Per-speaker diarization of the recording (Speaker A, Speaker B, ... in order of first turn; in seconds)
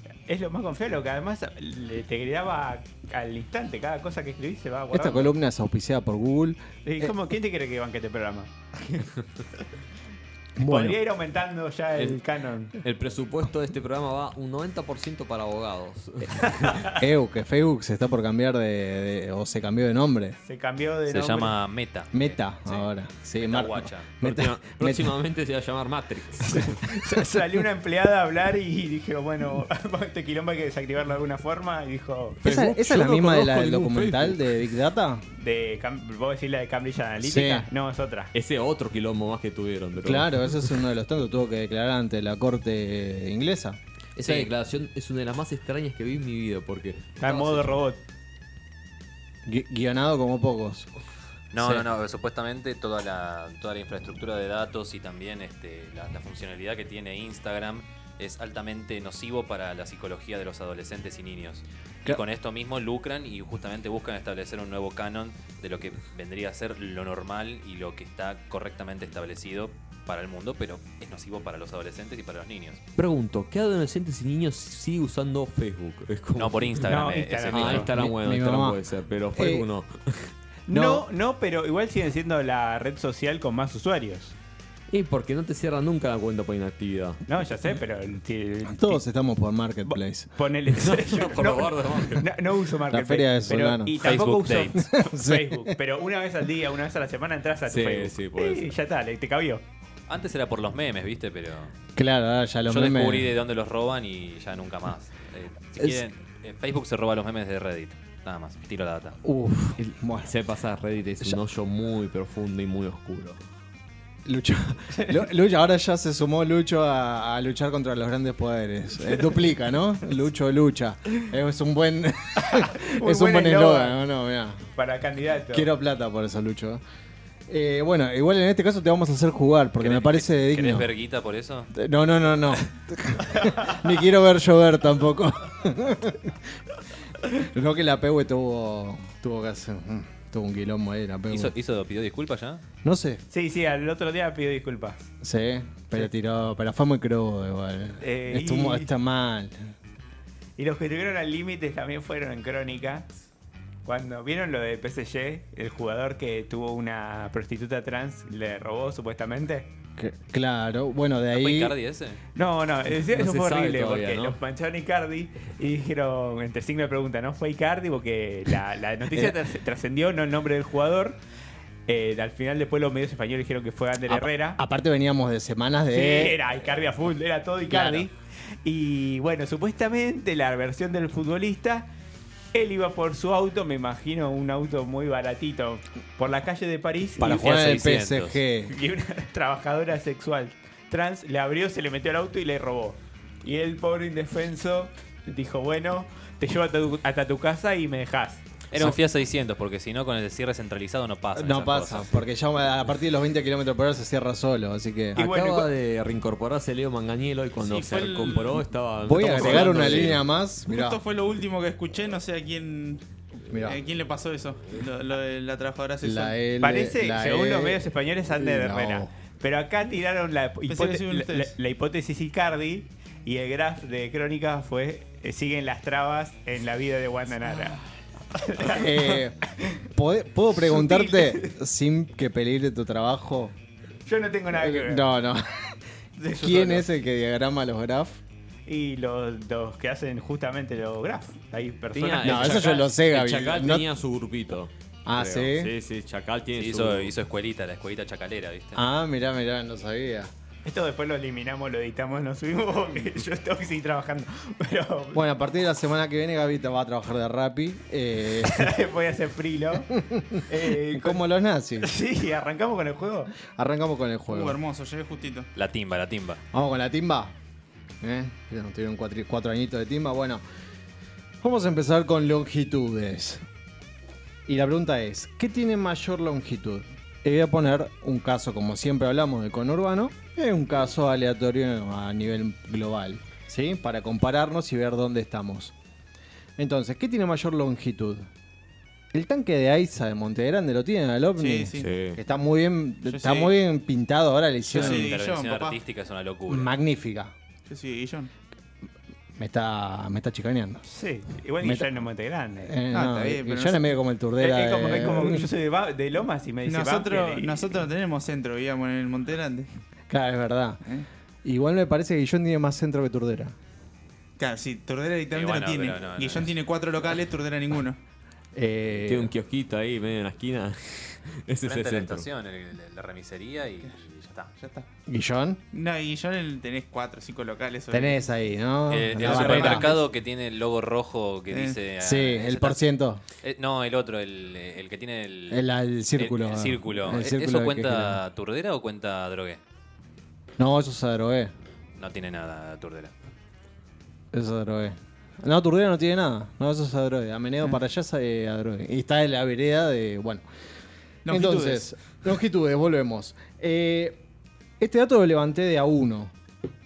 Speaker A: 0.3-5.3, 6.8-9.1, 10.6-12.8, 16.4-17.0, 20.4-21.6, 26.7-32.4, 35.4-38.3, 47.2-48.0, 76.8-77.9, 80.7-84.4, 87.3-89.0, 89.8-99.6, 114.9-115.2, 122.4-124.0, 124.8-125.7, 133.3-133.8, 143.3-145.0, 148.0-148.9, 150.6-153.1, 153.8-159.7, 162.3-171.2, 171.9-174.6, 175.9-178.1, 178.6-181.9, 182.5-187.7, 188.7-198.4, 205.2-205.7, 216.6-227.8, 228.3-229.8, 230.6-231.5, 234.1-235.1, 236.2-236.8, 238.7-242.9, 250.7-255.2, 258.4-261.2, 261.8-263.3, 300.9-302.7, 304.4-307.7
Speaker B: 4.9-7.1, 10.6-11.0, 16.9-20.4, 22.1-25.1, 32.4-35.2, 37.2-37.7, 40.0-43.8, 49.5-50.9, 51.6-51.9, 77.9-78.8, 79.3-79.7, 80.7-81.0, 88.7-90.3, 92.9-94.2, 94.7-95.8, 102.0-103.3, 109.2-110.3, 114.2-124.7, 125.5-126.8, 127.5-130.9, 131.7-136.4, 137.3-141.5, 142.8-143.2, 145.2-149.7, 160.0-161.8, 174.1-176.4, 177.7-178.1, 187.2-188.8, 198.8-199.0, 201.3-205.2, 209.0-211.0, 213.5-213.8, 216.0-219.1, 228.6-233.5, 234.5-235.8, 236.3-238.2, 242.2-243.9, 245.1-245.7, 248.8-250.3, 255.1-258.8, 260.0-261.9, 263.5-264.6, 266.5-267.4, 268.0-270.4, 271.4-273.4, 274.5-285.7, 286.6-288.3, 289.1-295.1, 296.5-297.3, 299.4-300.8, 301.6-302.0, 302.6-305.5, 310.1-310.8, 311.4-313.6, 318.6-319.3, 325.1-325.6, 327.9-330.0, 332.0-333.2, 335.5-338.2, 340.6-341.5, 344.3-350.4, 351.3-354.2, 354.8-356.3
Speaker C: 11.9-12.2, 12.8-16.9, 24.2-26.8, 32.4-34.6, 38.3-40.7, 44.2-47.7, 73.0-80.3, 84.9-87.2, 90.7-92.3, 97.7-98.8, 110.2-113.4, 163.1-164.4, 205.2-210.2, 241.9-247.1, 291.8-292.2, 319.0-322.3
Speaker D: 21.1-24.1, 44.2-44.5, 51.5-72.8, 76.4-78.0, 94.0-94.8, 100.1-101.7, 102.7-109.2, 129.8-131.7, 141.3-142.6, 161.3-162.2, 187.3-188.4, 198.7-202.2, 246.6-248.8, 265.6-266.4, 294.7-296.7, 315.3-316.5, 321.6-324.5, 328.9-332.9, 333.4-335.6, 336.2-339.6, 342.0-343.1
Speaker E: 207.7-208.7, 210.7-213.0, 213.6-216.4, 220.7-221.6, 264.3-265.5, 291.4-291.9, 293.1-293.6, 294.7-295.8, 297.7-298.3, 302.9-303.9, 306.7-309.7, 314.4-318.0, 324.6-324.9, 325.7-328.2, 329.2-330.0, 331.5-331.8, 351.2-351.9